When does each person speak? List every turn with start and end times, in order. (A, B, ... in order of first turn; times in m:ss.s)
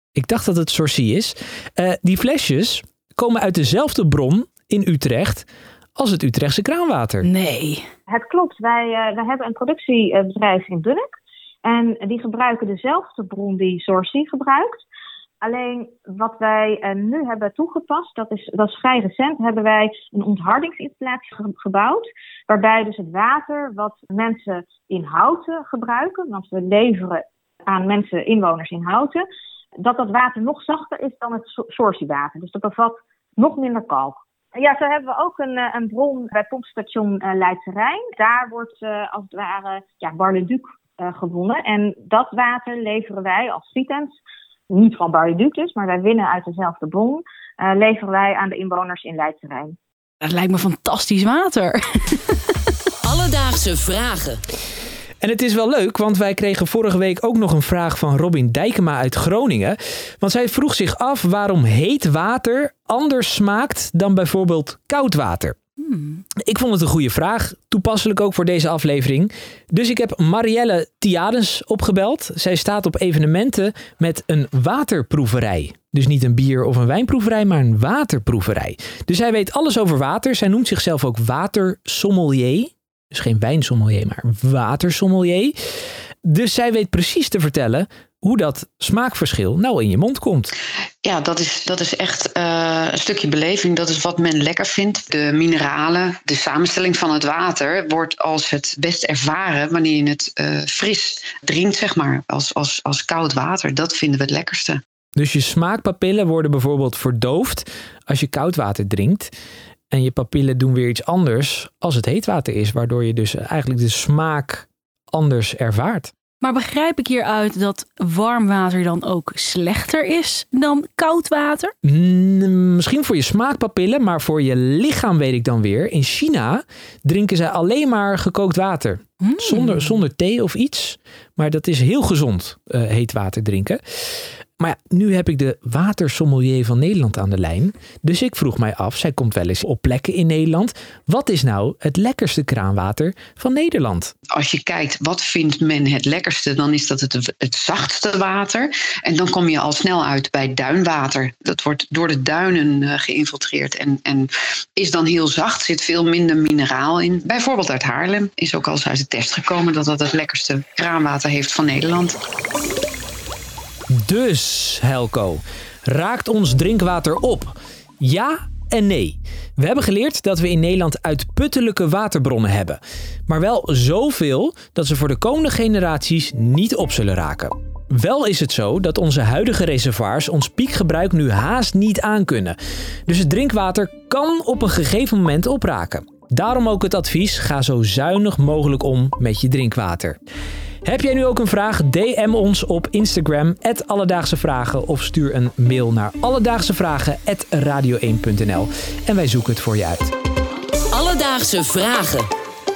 0:00.1-0:07.3 A
0:07.2-0:07.8 B
0:08.1-0:14.8 C
0:15.4-0:29.2 C
0:29.8-0:44.2 C
0:44.7-0:49.8 C
0:50.2-0:52.4 B
0:53.0-0:54.4 D
0:55.2-1:05.6 A
1:05.9-1:06.2 B
1:06.4-1:25.5 A
1:26.2-1:30.5 A
1:31.0-1:44.8 E
1:45.2-1:49.3 A
1:49.9-1:56.1 A
1:56.4-2:01.7 B
2:01.8-2:13.8 A
2:09.2-2:10.0 B
2:14.6-2:24.1 A
2:24.3-2:42.2 E
2:43.9-3:02.6 A
3:03.1-3:10.2 A
3:10.8-3:20.1 A
3:20.9-3:22.3 D